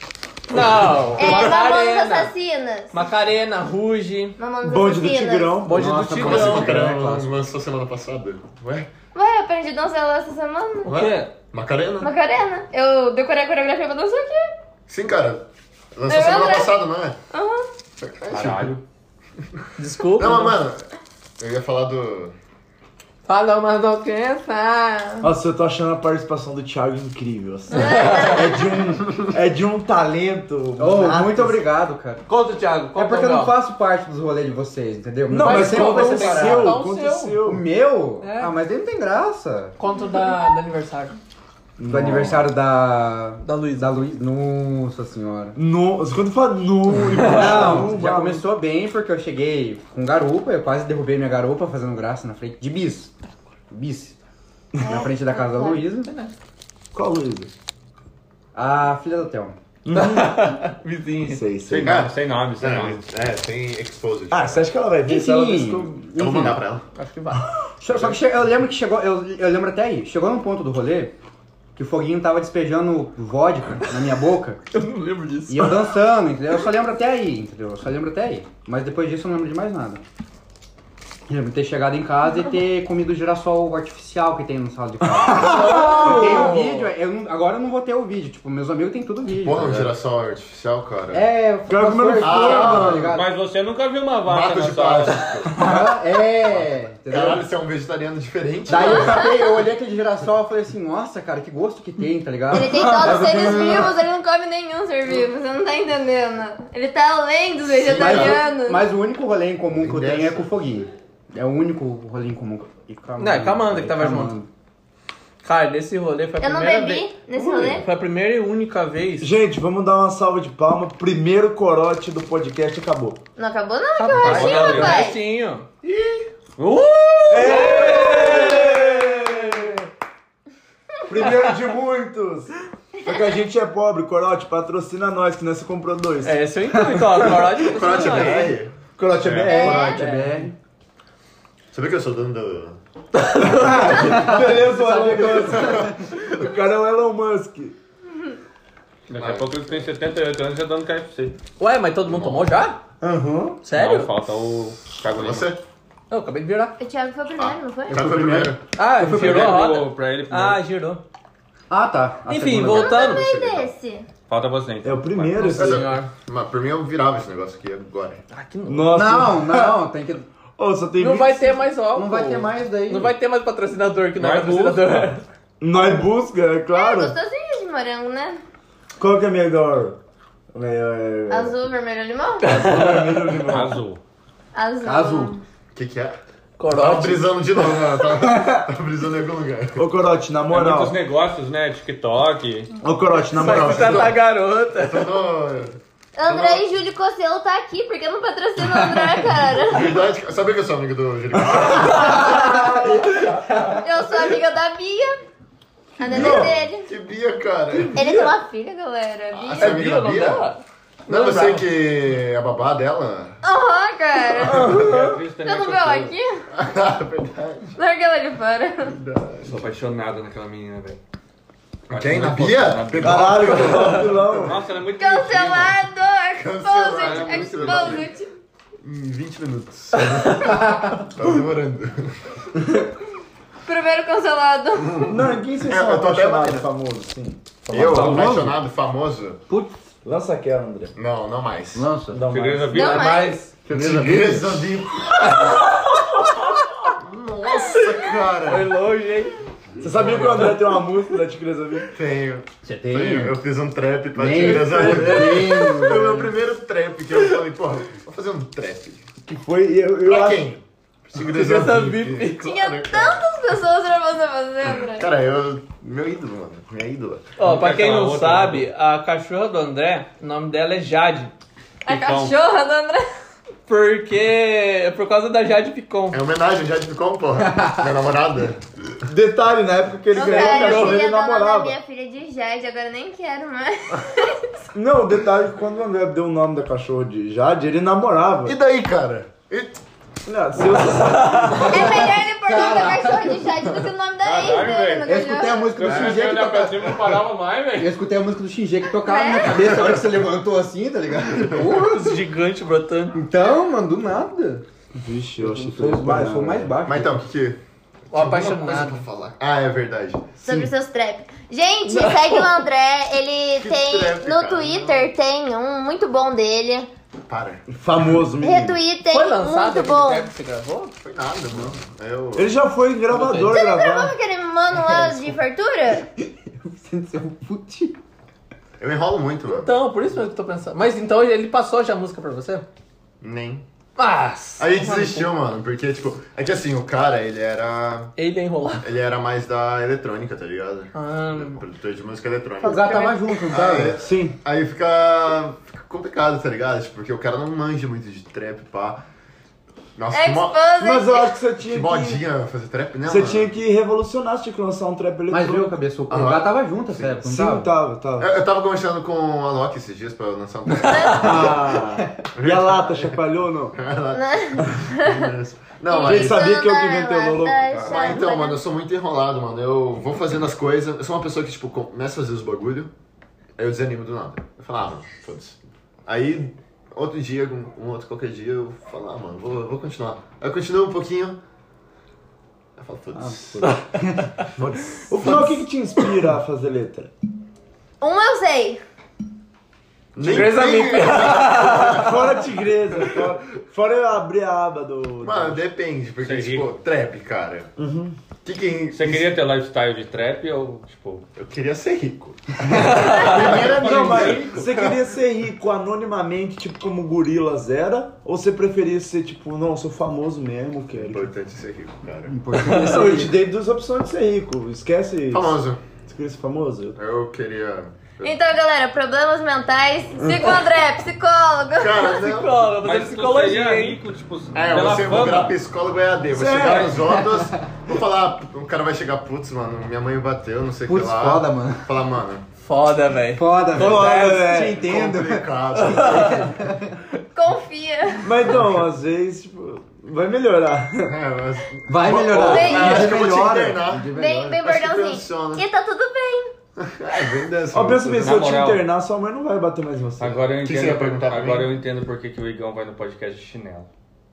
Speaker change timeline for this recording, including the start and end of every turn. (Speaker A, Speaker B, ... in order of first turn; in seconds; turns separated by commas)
Speaker A: 0.5-2.3, Speaker B: 0.6-1.5, Speaker C: 1.1-3.0, Speaker A: 2.9-4.4, Speaker C: 4.4-5.7, Speaker D: 4.6-6.0, Speaker A: 5.6-6.9, Speaker E: 5.7-7.3, Speaker B: 6.1-8.9, Speaker C: 9.1-11.1, Speaker A: 10.8-11.3, Speaker B: 11.5-12.1, Speaker C: 12.0-14.5, Speaker B: 14.9-17.2, Speaker C: 16.1-16.7, Speaker C: 17.3-17.7, Speaker B: 18.0-18.8, Speaker F: 18.3-18.8, Speaker A: 19.8-20.6, Speaker B: 20.1-22.3, Speaker A: 23.2-25.2, Speaker D: 25.2-31.6, Speaker C: 27.7-28.8, Speaker A: 27.7-28.6, Speaker E: 30.8-32.2, Speaker A: 32.3-33.5, Speaker E: 32.9-36.8, Speaker D: 35.3-37.6, Speaker A: 35.4-37.4, Speaker E: 37.4-39.7, Speaker A: 38.2-38.5, Speaker A: 39.8-41.1, Speaker D: 41.8-42.5, Speaker E: 41.9-45.6, Speaker A: 43.4-43.9, Speaker D: 45.5-48.4, Speaker A: 47.1-47.8, Speaker E: 47.1-53.1, Speaker E: 53.7-54.1, Speaker C: 54.8-55.8, Speaker E: 54.9-56.1, Speaker D: 56.9-57.5, Speaker E: 58.5-59.6, Speaker D: 59.8-60.6, Speaker A: 59.9-61.4, Speaker D: 61.2-62.0, Speaker F: 61.7-63.0, Speaker B: 61.7-64.7, Speaker D: 64.3-66.5, Speaker E: 65.0-66.6, Speaker B: 66.1-66.8, Speaker A: 66.9-67.5, Speaker E: 67.8-71.2, Speaker E: 71.8-74.6, Speaker A: 74.7-75.8, Speaker E: 75.5-80.0, Speaker E: 81.3-89.9, Speaker D: 85.0-86.6, Speaker A: 85.4-86.9, Speaker B: 89.3-91.2, Speaker E: 91.1-93.3, Speaker D: 91.7-93.1, Speaker B: 92.2-93.1, Speaker F: 93.1-95.2, Speaker B: 94.2-95.8, Speaker E: 95.5-97.4, Speaker B: 97.1-99.3, Speaker E: 98.7-103.9, Speaker C: 98.7-99.4, Speaker C: 102.5-108.8, Speaker D: 102.7-103.9, Speaker B: 107.7-108.4, Speaker E: 107.9-114.5, Speaker B: 109.7-110.5, Speaker A: 113.2-114.3, Speaker A: 115.4-117.1, Speaker C: 116.4-117.8, Speaker B: 117.4-117.8, Speaker A: 117.7-119.3, Speaker D: 119.2-123.2, Speaker C: 123.4-125.2, Speaker A: 123.9-125.7, Speaker F: 124.1-125.1, Speaker D: 125.8-126.1, Speaker F: 126.6-127.9, Speaker A: 127.2-129.7, Speaker D: 127.3-129.8, Speaker D: 131.1-132.5, Speaker D: 133.0-137.1, Speaker A: 136.2-138.5, Speaker B: 137.7-138.7, Speaker D: 137.9-140.5, Speaker F: 139.2-139.8, Speaker E: 139.4-140.5, Speaker C: 139.4-140.0, Speaker B: 141.7-142.8, Speaker A: 143.1-144.0, Speaker D: 143.4-147.7, Speaker B: 143.7-146.6, Speaker E: 143.8-145.9, Speaker F: 149.1-151.4, Speaker B: 149.2-149.9, Speaker A: 151.6-152.8, Speaker B: 152.1-152.6, Speaker D: 153.0-153.6, Speaker A: 153.6-154.1, Speaker F: 153.7-155.5, Speaker B: 155.1-155.6, Speaker A: 156.1-156.8, Speaker C: 156.8-158.0, Speaker B: 157.4-158.6, Speaker E: 157.9-158.5, Speaker D: 158.0-158.5, Speaker A: 158.7-161.0, Speaker F: 159.0-160.6, Speaker E: 161.7-162.9, Speaker A: 162.3-163.2, Speaker C: 162.7-164.1, Speaker B: 162.9-163.7, Speaker F: 164.3-165.6, Speaker D: 164.8-165.9, Speaker A: 165.4-166.1, Speaker B: 165.6-168.2, Speaker A: 168.3-169.1, Speaker D: 168.7-169.8, Speaker E: 168.9-170.2, Speaker D: 170.6-171.6, Speaker A: 171.0-175.2, Speaker E: 171.9-173.1, Speaker F: 174.2-175.1, Speaker D: 175.6-177.2, Speaker C: 176.7-178.4, Speaker D: 179.0-180.0, Speaker D: 180.5-181.6, Speaker C: 181.3-182.5, Speaker A: 182.4-183.3, Speaker D: 182.4-183.8, Speaker F: 183.5-184.0, Speaker C: 184.5-185.4, Speaker E: 184.8-185.3, Speaker B: 185.7-186.2, Speaker A: 186.6-187.3, Speaker B: 186.7-189.8, Speaker D: 189.8-191.0, Speaker F: 190.5-192.7, Speaker D: 192.8-194.1, Speaker A: 193.3-195.1, Speaker B: 193.3-194.2, Speaker B: 194.7-196.7, Speaker C: 196.1-200.0, Speaker B: 199.6-202.4, Speaker D: 201.5-203.3, Speaker E: 202.2-202.9, Speaker E: 203.5-203.8, Speaker C: 203.8-205.2, Speaker C: 206.0-206.9, Speaker B: 206.1-208.1, Speaker D: 206.1-206.6, Speaker D: 207.7-208.2, Speaker C: 207.9-209.8, Speaker B: 209.3-210.5, Speaker A: 209.6-211.6, Speaker B: 211.1-213.4, Speaker C: 213.4-214.8, Speaker D: 214.5-215.1, Speaker F: 214.6-216.1, Speaker A: 214.8-215.1, Speaker C: 215.4-216.4, Speaker B: 216.5-217.8, Speaker C: 217.8-218.9, Speaker B: 218.9-219.6, Speaker F: 219.4-221.0, Speaker F: 221.9-225.8, Speaker B: 221.9-224.2, Speaker D: 223.0-224.6, Speaker C: 224.9-228.3, Speaker B: 226.4-228.1, Speaker F: 227.0-228.1, Speaker B: 228.8-232.2, Speaker C: 233.7-235.2, Speaker B: 234.8-236.7, Speaker D: 235.1-237.5, Speaker E: 237.7-238.6, Speaker B: 237.7-239.4, Speaker F: 237.9-238.3, Speaker E: 239.5-239.8, Speaker D: 240.0-240.9, Speaker B: 240.9-241.9, Speaker E: 241.7-242.3, Speaker D: 242.1-242.7, Speaker F: 242.2-243.1, Speaker C: 242.7-243.4, Speaker A: 242.7-243.5, Speaker E: 243.6-244.7, Speaker B: 243.7-245.5, Speaker B: 247.0-248.7, Speaker A: 248.4-249.3, Speaker D: 249.8-251.9, Speaker B: 249.8-250.6, Speaker B: 251.9-259.0, Speaker E: 252.6-253.4, Speaker E: 254.1-256.3, Speaker D: 254.4-255.7, Speaker D: 259.2-260.5, Speaker B: 260.1-263.3, Speaker A: 261.1-262.4, Speaker C: 262.4-265.1, Speaker B: 264.9-267.3, Speaker A: 267.4-271.3, Speaker F: 267.4-268.7, Speaker C: 271.8-273.0, Speaker F: 271.9-272.4, Speaker A: 273.7-276.2, Speaker B: 276.1-278.6, Speaker D: 279.0-281.8, Speaker C: 280.1-284.5, Speaker A: 280.1-281.0, Speaker D: 284.7-288.6, Speaker B: 288.4-289.8, Speaker D: 290.2-292.1, Speaker E: 291.6-293.4, Speaker C: 291.7-295.8, Speaker F: 294.2-298.0, Speaker E: 295.0-296.9, Speaker E: 297.8-302.1, Speaker C: 299.0-299.8, Speaker B: 299.6-300.1, Speaker A: 301.5-303.2, Speaker E: 303.1-304.6, Speaker D: 304.9-306.7, Speaker E: 305.4-307.2, Speaker B: 306.8-307.6, Speaker B: 308.1-310.7, Speaker A: 308.1-309.0, Speaker C: 310.4-316.9, Speaker A: 311.9-312.6, Speaker B: 313.6-315.1, Speaker B: 317.3-318.1, Speaker D: 317.7-318.8, Speaker C: 318.4-320.3, Speaker A: 319.1-320.9, Speaker B: 321.0-322.5, Speaker D: 322.3-324.1, Speaker A: 323.1-323.6, Speaker C: 323.4-326.0, Speaker E: 324.7-325.4, Speaker E: 326.4-328.0, Speaker B: 328.8-329.7, Speaker A: 329.5-332.6, Speaker B: 333.2-333.6, Speaker A: 334.0-335.3, Speaker B: 334.6-338.1, Speaker A: 338.2-338.9, Speaker B: 338.8-349.0, Speaker A: 340.9-341.6, Speaker E: 342.6-344.0, Speaker A: 342.6-343.3, Speaker D: 344.0-344.4, Speaker B: 349.9-350.6, Speaker C: 350.1-351.3, Speaker D: 350.8-352.2, Speaker B: 351.6-353.5, Speaker D: 353.1-355.8, Speaker E: 355.3-357.7, Speaker B: 356.1-357.2, Speaker D: 357.2-358.3, Speaker B: 358.2-361.8, Speaker C: 360.8-361.4, Speaker D: 361.2-363.8, Speaker E: 361.5-362.1, Speaker B: 362.3-363.2, Speaker B: 363.8-366.5, Speaker C: 364.1-365.3, Speaker C: 365.9-368.6, Speaker D: 366.0-367.8, Speaker F: 367.7-368.2, Speaker B: 367.8-372.9, Speaker B: 373.6-381.4, Speaker B: 382.8-383.8, Speaker E: 383.1-384.3, Speaker B: 384.6-385.4, Speaker D: 384.7-387.1, Speaker C: 388.0-388.8, Speaker B: 390.1-392.3, Speaker A: 390.2-392.1, Speaker D: 391.9-395.6, Speaker B: 395.2-397.7, Speaker F: 396.2-396.7, Speaker D: 397.8-398.2, Speaker B: 398.4-399.3, Speaker F: 398.9-401.2, Speaker B: 401.4-404.9, Speaker E: 402.6-404.5, Speaker A: 402.8-403.3, Speaker D: 403.2-411.3, Speaker F: 403.3-404.6, Speaker B: 410.9-412.3, Speaker E: 412.3-413.4, Speaker A: 412.6-413.1, Speaker D: 412.6-417.0, Speaker B: 415.3-415.8, Speaker B: 416.9-418.4, Speaker C: 418.2-422.2, Speaker D: 420.2-420.5, Speaker B: 421.8-422.6, Speaker A: 422.0-424.0, Speaker F: 422.8-425.6, Speaker B: 424.5-432.4, Speaker D: 426.3-427.0, Speaker F: 426.6-426.9, Speaker E: 426.9-427.6, Speaker E: 430.8-431.9, Speaker A: 432.6-434.6, Speaker E: 433.3-436.9, Speaker D: 433.8-434.9, Speaker B: 434.7-436.6, Speaker A: 435.7-436.5, Speaker C: 437.3-438.4, Speaker D: 438.2-441.1, Speaker B: 441.1-445.6, Speaker E: 441.9-444.6, Speaker C: 442.4-443.1, Speaker C: 444.1-446.5, Speaker B: 446.8-448.4, Speaker D: 447.7-450.4, Speaker F: 448.2-448.8, Speaker F: 450.2-453.9, Speaker B: 450.6-451.8